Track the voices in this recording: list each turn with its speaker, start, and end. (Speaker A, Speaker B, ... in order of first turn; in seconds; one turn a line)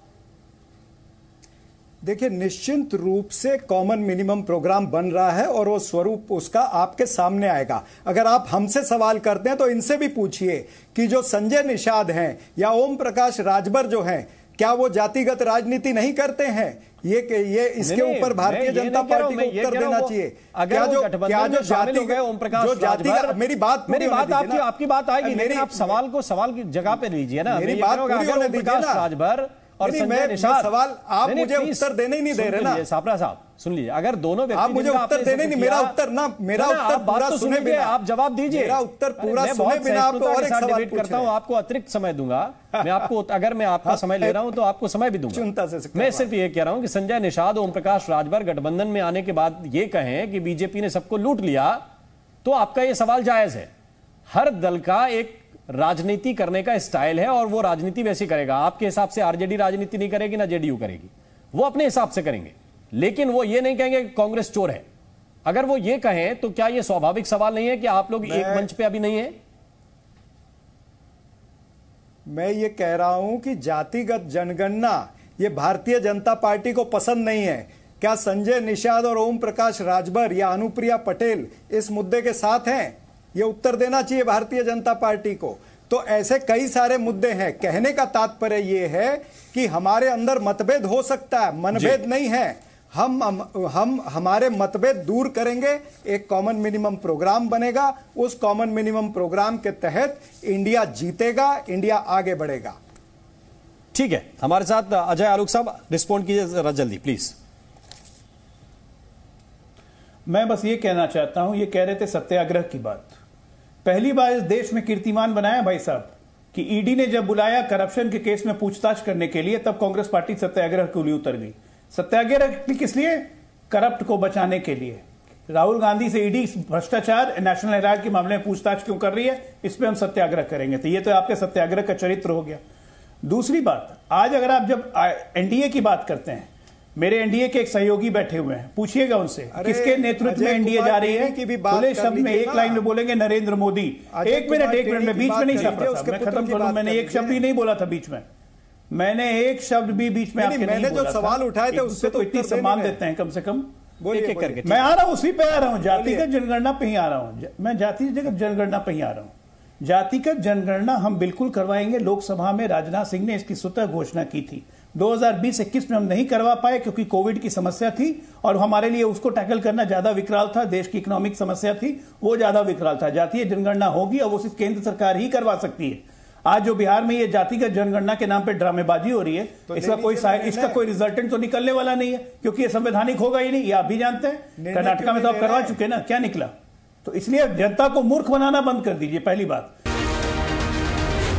Speaker A: 2.0-24.6
Speaker B: 17.8-30.7
Speaker A: 25.2-26.0
Speaker A: 27.5-29.1
Speaker A: 29.8-32.9
Speaker B: 31.2-35.9
Speaker A: 34.5-38.0
Speaker B: 36.5-45.4
Speaker A: 38.5-41.3
Speaker A: 43.9-44.4
Speaker A: 45.3-46.3
Speaker B: 45.9-51.8
Speaker B: 52.4-53.7
Speaker B: 54.3-64.8
Speaker B: 65.4-69.3
Speaker A: 68.2-68.7
Speaker A: 72.3-102.8
Speaker B: 91.7-92.0
Speaker B: 103.9-107.3
Speaker C: 110.3-113.2
Speaker C: 113.8-132.6
Speaker C: 133.2-148.2
Speaker A: 139.5-142.8
Speaker A: 144.1-147.4
Speaker C: 148.9-153.7
Speaker A: 150.4-153.0
Speaker A: 154.0-154.9
Speaker B: 154.1-154.9
Speaker C: 154.6-186.5
Speaker A: 155.8-156.3
Speaker A: 179.7-180.8
Speaker A: 184.6-185.8
Speaker C: 187.0-189.7